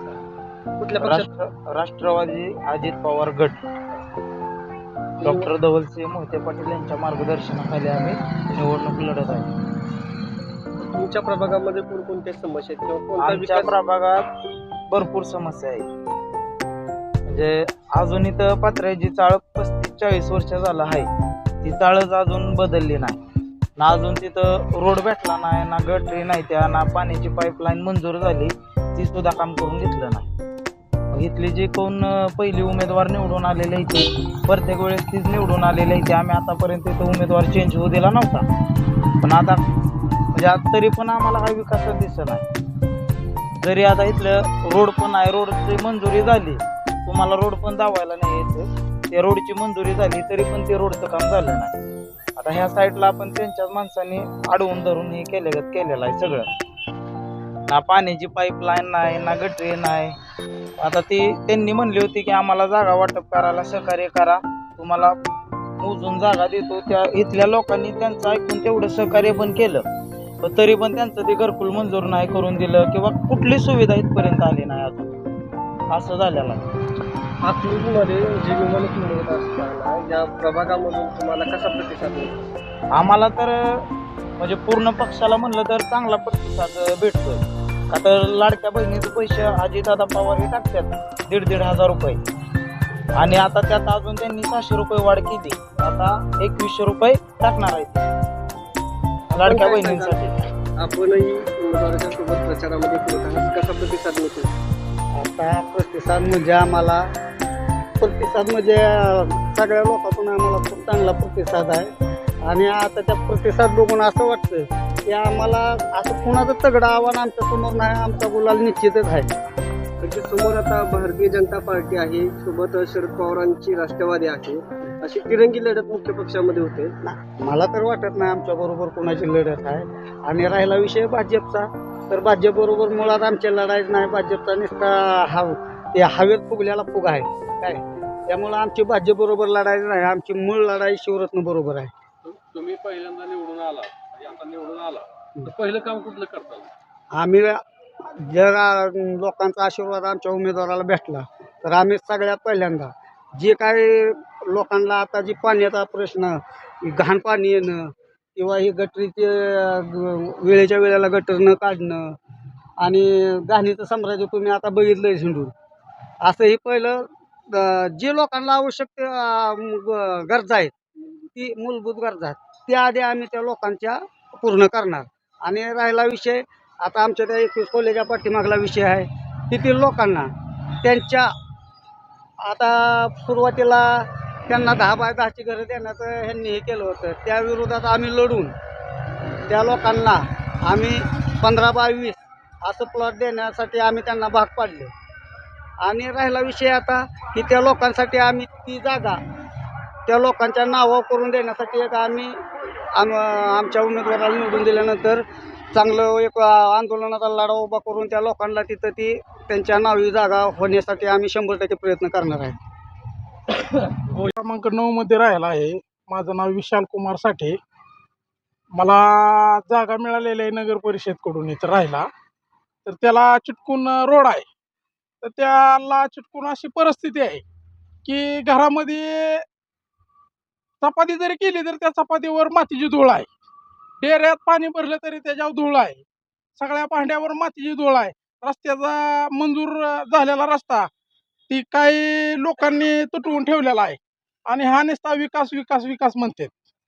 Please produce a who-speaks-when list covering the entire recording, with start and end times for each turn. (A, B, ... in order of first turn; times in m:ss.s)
0:00.8-0:01.2 A
0:01.0-0:03.6 B
0:05.2-0:05.5 A
0:05.2-0:09.5 B
0:10.8-0:13.7 A
0:13.2-0:14.3 B
0:14.9-0:15.8 B
0:17.3-0:21.1 B
0:21.6-0:23.2 B
0:23.8-0:30.2 B
0:31.1-0:38.4 B
0:39.2-0:39.6 B
0:40.3-0:42.4 B
0:43.6-0:51.7 B
0:52.4-0:56.5 B
0:57.7-1:00.2 B
1:00.8-1:05.2 B
1:05.8-1:09.8 B
1:10.4-1:15.2 B
1:15.9-1:16.6 B
1:17.4-1:22.5 A
1:22.9-1:23.8 B
1:24.4-1:32.2 B
1:33.2-1:38.0 B
1:39.3-1:40.3 B
1:39.3-1:40.2 A
1:40.8-1:44.5 A
1:45.2-1:47.1 C
1:48.0-1:51.9 C
1:52.4-1:59.3 C
2:00.0-2:06.9 A
2:07.0-2:21.9 C
2:22.3-2:26.7 D
2:27.1-2:27.6 C
2:28.2-2:42.2 C
2:42.8-2:45.5 C
2:46.2-3:00.3 C
3:00.8-3:01.3 C
3:02.4-3:08.5 C
3:09.5-3:14.9 C
3:15.8-3:19.2 C
3:20.1-3:22.4 C
3:22.9-3:32.6 C
3:34.1-3:37.6 E
3:38.7-3:42.1 E
3:42.8-3:44.5 E
3:45.2-3:47.4 E
3:48.0-3:49.4 E
3:50.8-3:53.3 E
3:54.0-3:56.0 E
3:56.6-4:00.9 E
4:01.5-4:06.5 E